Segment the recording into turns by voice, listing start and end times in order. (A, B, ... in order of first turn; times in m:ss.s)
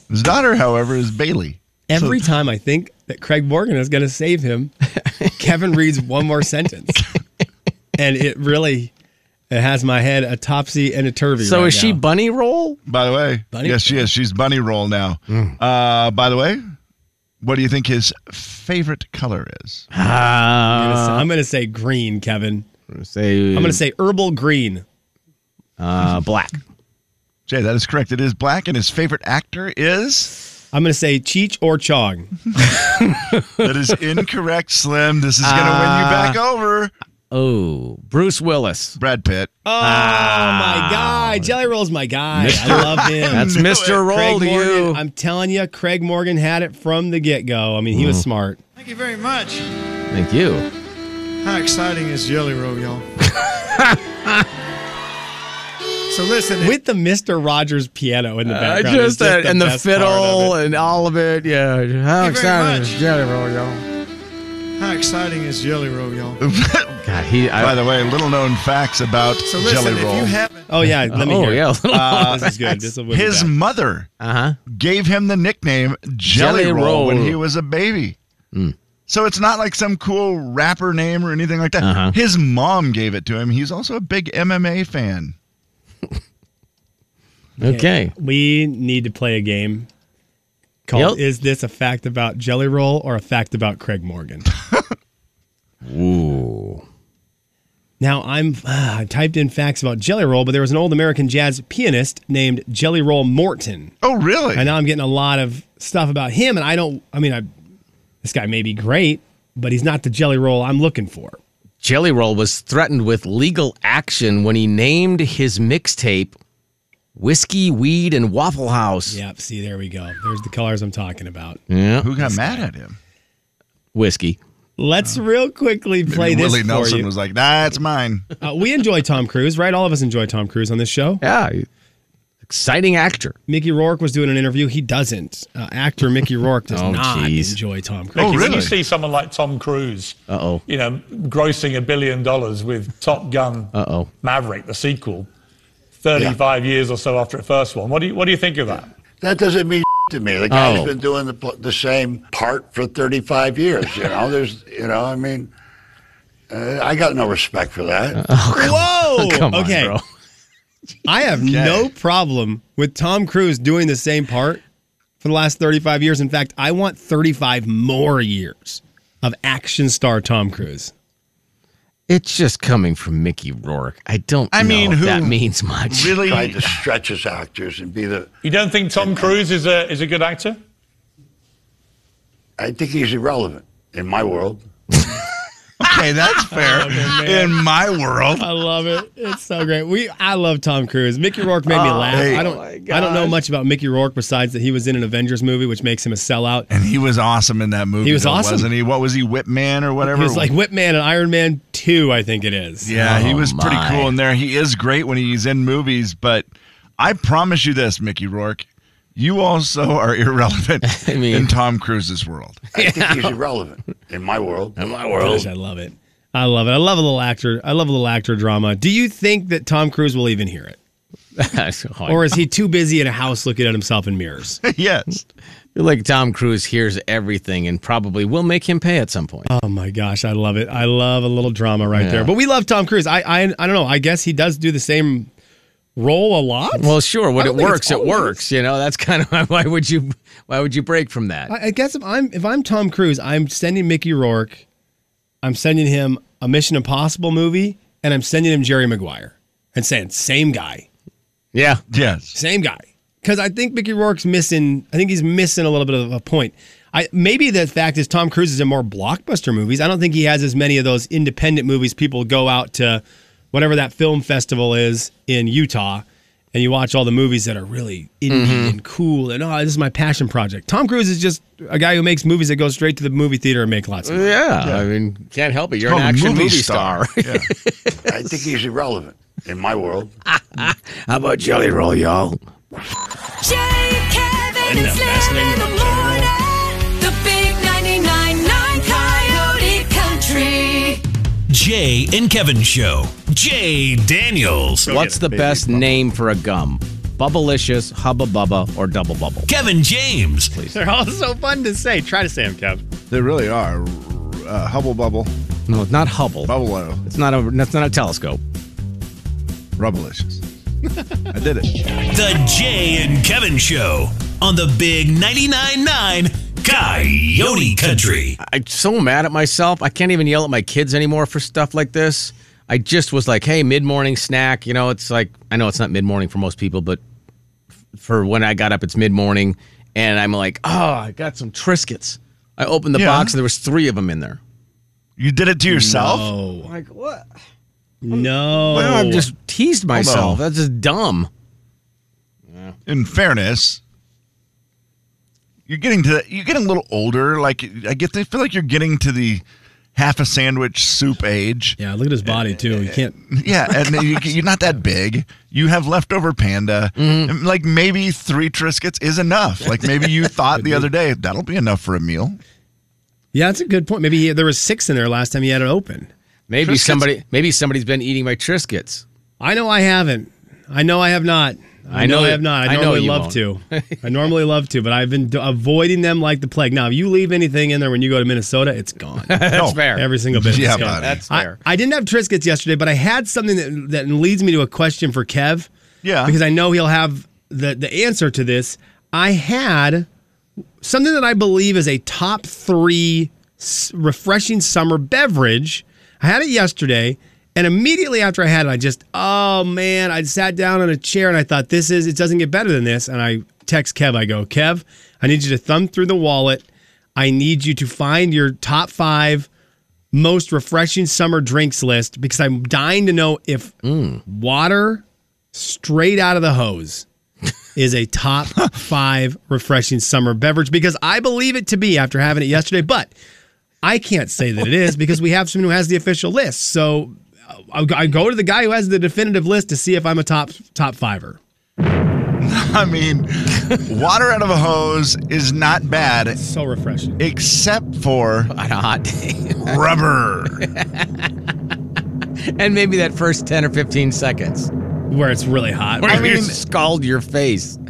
0:00.1-0:02.3 A
0:01.9-0:04.7 B
0:05.4-0:07.1 B
0:08.0-0:08.9 B
0:09.5-0:12.0 B
0:11.4-0:12.8 C
0:12.9-0:16.6 A
0:13.5-0:14.0 B
0:15.3-0:15.6 C
0:17.4-0:19.8 A
0:19.9-0:21.3 C
0:20.7-0:22.7 B
0:22.9-0:23.8 C
0:23.5-0:24.8 B
0:25.8-0:26.6 C
0:27.5-0:30.4 A
0:30.7-0:32.3 B
0:32.8-0:33.6 C
0:33.6-0:36.9 A
0:35.4-0:36.4 C
0:37.3-0:39.0 C
0:39.0-0:39.5 A
0:39.6-0:48.6 B
0:39.8-0:41.5 C
0:42.3-0:45.0 C
0:42.5-0:44.1 A
0:47.9-0:48.2 C
0:48.8-0:49.7 D
0:50.1-0:50.7 C
0:51.4-0:53.0 D
0:53.3-0:54.5 C
0:56.1-0:56.8 D
0:56.6-1:00.6 B
0:58.4-1:03.8 C
1:02.2-1:03.0 D
1:04.8-1:06.4 D
1:06.4-1:07.0 A
1:07.0-1:07.8 C
1:07.6-1:10.3 A
1:09.4-1:10.7 D
1:10.7-1:13.5 B
1:11.1-1:12.8 C
1:11.9-1:12.6 A
1:13.1-1:14.1 A
1:14.2-1:14.6 C
1:14.7-1:18.2 A
1:16.3-1:17.4 C
1:19.1-1:25.4 A
1:21.8-1:22.2 C
1:27.6-1:28.1 C
1:27.6-1:29.9 B
1:30.9-1:34.5 B
1:30.9-1:31.2 C
1:35.8-1:36.8 C
1:38.0-1:43.9 B
1:44.0-1:44.8 A
1:44.6-1:47.5 B
1:48.2-1:51.4 B
1:51.8-1:56.4 C
1:57.2-1:59.2 C
1:59.1-2:01.6 B
2:01.7-2:02.6 C
2:02.0-2:03.0 A
2:03.9-2:04.4 C
2:04.8-2:07.1 B
2:06.1-2:08.3 A
2:08.4-2:11.2 B
2:11.2-2:11.7 C
2:12.5-2:13.4 C
2:13.5-2:18.7 B
2:16.7-2:17.6 C
2:18.2-2:18.8 A
2:18.2-2:25.3 E
2:20.3-2:20.6 C
2:23.7-2:24.1 C
2:26.0-2:28.9 E
2:29.2-2:35.5 F
2:30.5-2:30.9 C
2:36.5-2:38.2 F
2:38.2-2:40.0 C
2:38.5-2:40.0 B
2:41.1-2:44.6 B
2:41.4-2:41.9 A
2:45.2-2:50.9 B
2:52.1-2:56.3 C
2:54.5-2:55.4 A
2:55.9-2:56.8 A
2:56.2-2:58.3 F
2:58.4-3:00.6 E
2:59.0-2:59.4 F
3:02.6-3:04.6 F
3:05.8-3:08.5 A
3:06.5-3:07.6 B
3:08.4-3:16.7 B
3:11.7-3:13.4 C
3:12.1-3:12.4 A
3:16.7-3:20.5 A
3:18.0-3:18.7 B
3:20.0-3:22.9 B
3:22.8-3:28.6 A
3:22.9-3:24.1 C
3:29.2-3:32.6 A
3:30.8-3:31.5 C
3:32.7-3:34.8 F
3:32.8-3:33.4 C
3:34.8-3:35.5 C
3:35.1-3:40.8 B
3:41.4-3:42.4 C
3:42.1-3:44.6 B
3:44.6-3:45.2 A
3:45.8-3:49.5 C
3:49.5-3:55.3 B
3:52.0-3:52.3 C
3:56.0-3:58.4 B
3:56.8-4:01.5 C
4:01.5-4:04.6 B
4:05.4-4:10.9 B
4:11.5-4:11.8 C
4:11.9-4:12.4 A
4:12.3-4:34.4 B
4:28.3-4:28.8 C
4:34.0-4:38.1 C
4:35.8-4:37.5 A
4:38.1-4:40.1 F
4:40.3-4:42.4 C
4:43.4-4:51.0 G
4:44.6-4:46.3 B
4:51.5-4:54.9 H
4:54.9-4:55.5 B
4:54.9-4:59.5 C
4:55.4-4:55.8 A
4:59.5-5:00.5 H
5:00.7-5:02.8 B
5:03.1-5:05.3 A
5:05.7-5:06.5 C
5:06.5-5:07.0 A
5:07.0-5:08.4 C
5:09.8-5:10.4 A
5:11.3-5:11.7 A
5:12.1-5:18.4 H
5:18.4-5:27.0 C
5:28.0-5:34.4 C
5:32.9-5:33.4 A
5:35.2-5:36.3 A
5:35.7-5:36.7 B
5:36.6-5:37.3 C
5:38.0-5:39.3 B
5:38.1-5:41.3 C
5:38.7-5:39.0 A
5:39.9-5:40.4 A
5:42.9-5:43.8 A
5:45.7-5:49.4 A
5:50.0-5:51.8 A
5:51.8-5:53.2 B
5:53.2-6:02.4 A
5:57.0-5:57.3 C
6:03.3-6:06.1 B
6:06.5-6:09.0 C
6:06.6-6:07.1 A
6:09.4-6:25.7 B
6:11.9-6:14.0 C
6:19.3-6:21.6 C
6:19.5-6:21.2 A
6:26.0-6:26.4 A
6:26.3-6:30.1 B
6:30.8-6:49.5 B
6:50.1-6:57.1 B
6:53.8-6:54.2 C
6:57.8-7:03.1 B
7:03.8-7:11.4 B
7:12.4-7:16.4 A
7:16.4-7:17.2 B
7:17.2-7:18.5 A
7:18.5-7:19.8 C
7:19.6-7:20.7 A
7:20.6-7:21.3 C
7:22.6-7:24.7 C
7:25.1-7:26.3 B
7:26.0-7:27.8 C
7:26.1-7:26.6 A